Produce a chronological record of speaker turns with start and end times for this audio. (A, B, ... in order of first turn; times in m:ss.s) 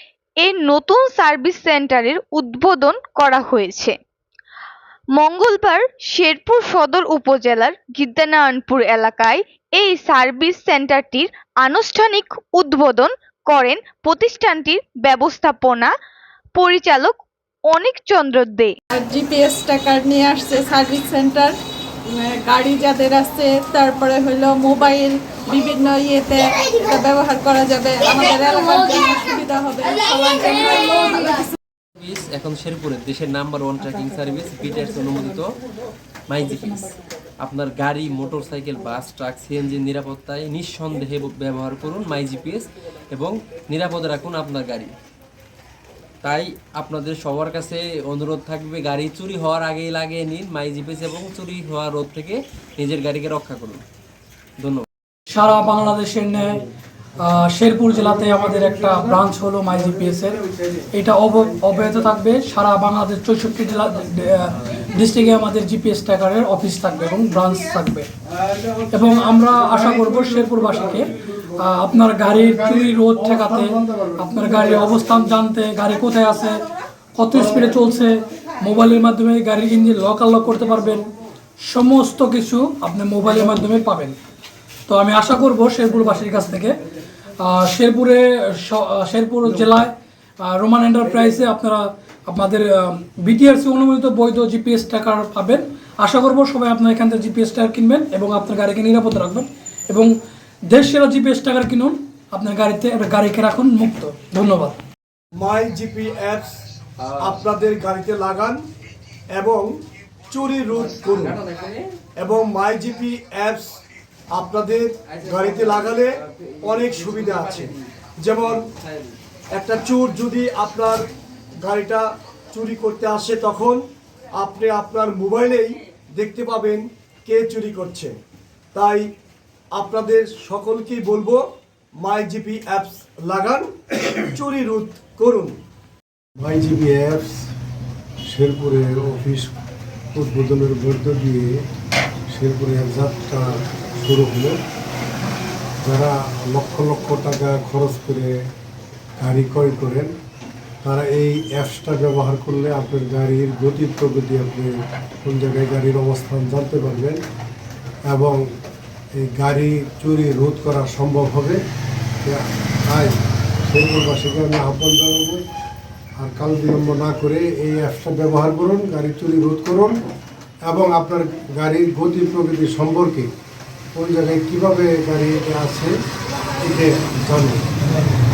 0:00.4-0:04.0 A
0:05.2-0:15.9 A
0:16.6-0:17.1 A
0:17.7-0:18.7 A
0:18.9-0:21.6 B
0:22.1-0:31.5 B
0:32.0-0:35.5 C
0:36.3-0:44.9 C
0:46.2-0:53.8 C
0:54.6-0:54.8 C
0:55.3-0:56.6 D
0:57.2-1:00.4 D
0:58.3-0:59.0 E
1:00.9-1:08.1 D
1:08.4-1:11.4 E
1:08.9-1:16.6 D
1:12.1-1:14.9 E
1:17.2-1:21.1 D
1:21.6-1:24.2 D
1:24.9-1:26.8 D
1:27.4-1:40.1 D
1:40.7-1:44.8 D
1:45.3-1:46.6 F
1:47.0-1:47.4 C
1:47.2-1:48.6 F
1:49.3-1:49.7 F
1:50.3-1:51.4 F
1:50.7-1:51.9 C
1:52.2-1:53.8 F
1:54.3-1:58.7 F
1:55.1-1:57.8 C
1:58.4-1:59.1 C
1:59.5-2:08.1 F
2:08.7-2:09.1 F
2:09.7-2:11.4 F
2:12.0-2:13.7 F
2:14.3-2:15.6 F
2:16.4-2:17.4 E
2:18.3-2:19.5 E
2:20.1-2:21.6 E
2:22.3-2:24.6 E
2:25.8-2:28.4 E
2:29.2-2:30.1 E
2:30.8-2:34.7 E
2:35.2-2:37.2 E
2:38.1-2:38.4 E
2:39.2-2:41.6 E
2:42.2-2:45.4 E
2:46.2-2:50.0 E
2:50.6-2:53.3 E
2:53.9-2:55.9 E
2:56.6-2:57.7 E